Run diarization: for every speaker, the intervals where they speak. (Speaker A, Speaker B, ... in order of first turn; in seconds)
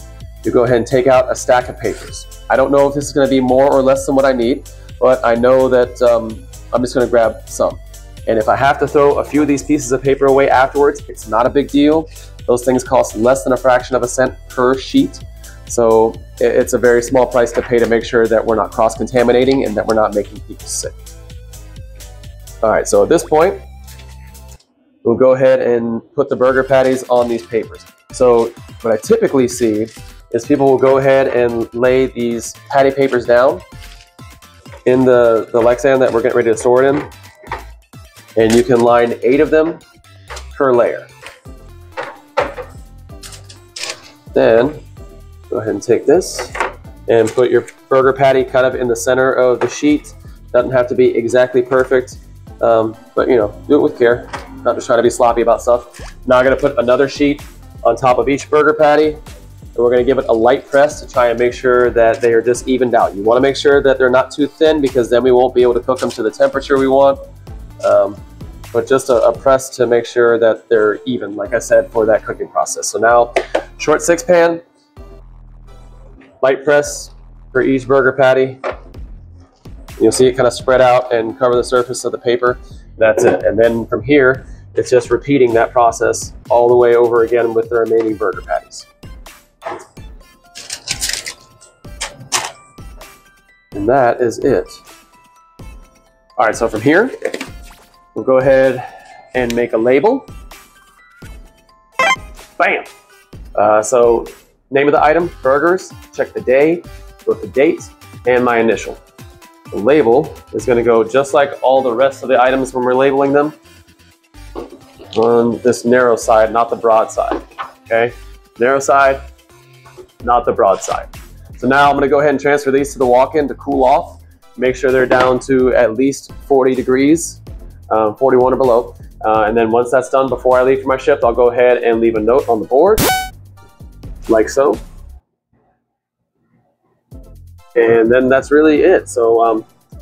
Speaker A: 0.4-21.0, 22.6-23.6, 25.0-33.6, 34.9-37.1, 38.4-39.8, 40.5-41.1, 44.3-44.8, 45.5-59.2, 59.7-67.2, 67.8-68.2, 68.7-74.6, 76.4-78.6, 80.0-88.9, 93.7-94.8, 96.4-97.4, 98.1-100.2, 102.6-102.9, 103.5-109.0, 109.7-113.5, 115.1-119.2, 120.2-133.1, 134.3-134.8, 137.7-139.7